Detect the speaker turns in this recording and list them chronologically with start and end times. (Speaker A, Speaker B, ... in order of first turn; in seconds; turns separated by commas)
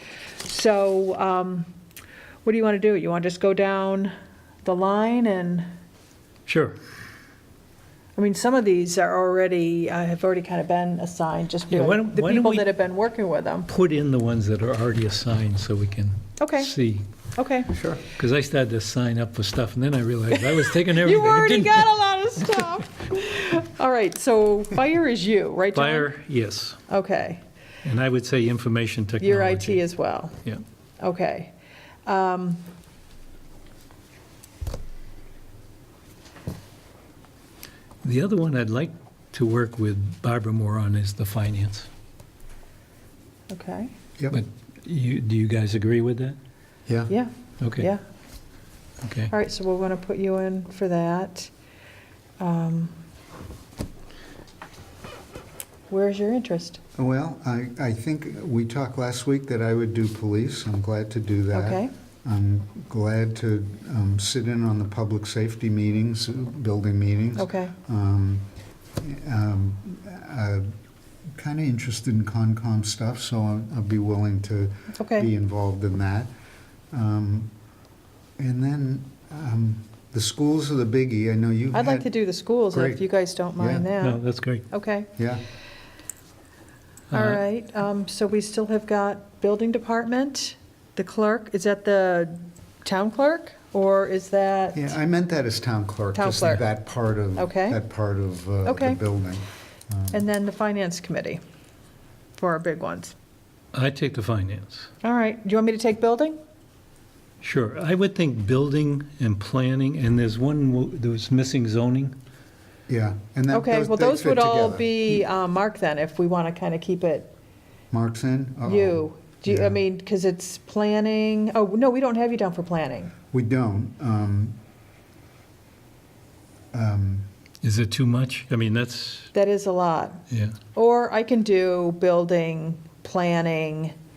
Speaker A: 0.4-1.7, Speaker A: 2.4-4.1, Speaker A: 4.6-5.7, Speaker B: 6.5-6.8, Speaker A: 8.2-13.7, Speaker B: 11.7-12.7, Speaker B: 13.7-17.0, Speaker A: 16.4-16.7, Speaker A: 17.4-17.7, Speaker C: 17.7-18.0, Speaker B: 18.1-21.9, Speaker A: 20.3-26.1, Speaker B: 25.7-26.8, Speaker A: 26.9-27.4, Speaker B: 27.8-29.8, Speaker A: 29.2-30.4, Speaker A: 31.0-31.5, Speaker A: 32.0-32.6, Speaker B: 38.0-41.9, Speaker A: 43.5-43.9, Speaker B: 44.3-46.4, Speaker C: 46.9-47.1, Speaker A: 47.1-48.0, Speaker B: 47.6-47.9, Speaker B: 49.0-49.3, Speaker A: 49.3-51.5, Speaker A: 52.4-53.0, Speaker A: 55.9-56.8, Speaker C: 57.0-68.5, Speaker A: 61.5-61.9, Speaker A: 67.4-67.7, Speaker C: 69.0-70.7, Speaker C: 71.3-76.3, Speaker A: 74.9-75.3, Speaker C: 76.9-77.5, Speaker C: 78.4-82.1, Speaker A: 81.7-85.1, Speaker C: 82.7-83.0, Speaker C: 83.6-83.9, Speaker B: 84.0-84.7, Speaker C: 85.2-85.4, Speaker B: 87.1-87.4, Speaker A: 87.1-94.9, Speaker C: 94.7-100.2, Speaker A: 96.1-96.6, Speaker A: 97.3-97.8, Speaker A: 98.7-99.0, Speaker A: 100.1-101.4, Speaker A: 102.3-103.1, Speaker B: 103.7-104.9, Speaker A: 105.0-106.4, Speaker B: 107.4-112.1, Speaker C: 112.9-115.2, Speaker A: 113.5-117.3, Speaker C: 117.9-119.8, Speaker A: 118.6-123.1, Speaker C: 123.3-124.6, Speaker C: 126.7-127.3, Speaker B: 127.6-129.3, Speaker A: 129.3-133.9, Speaker B: 130.3-130.5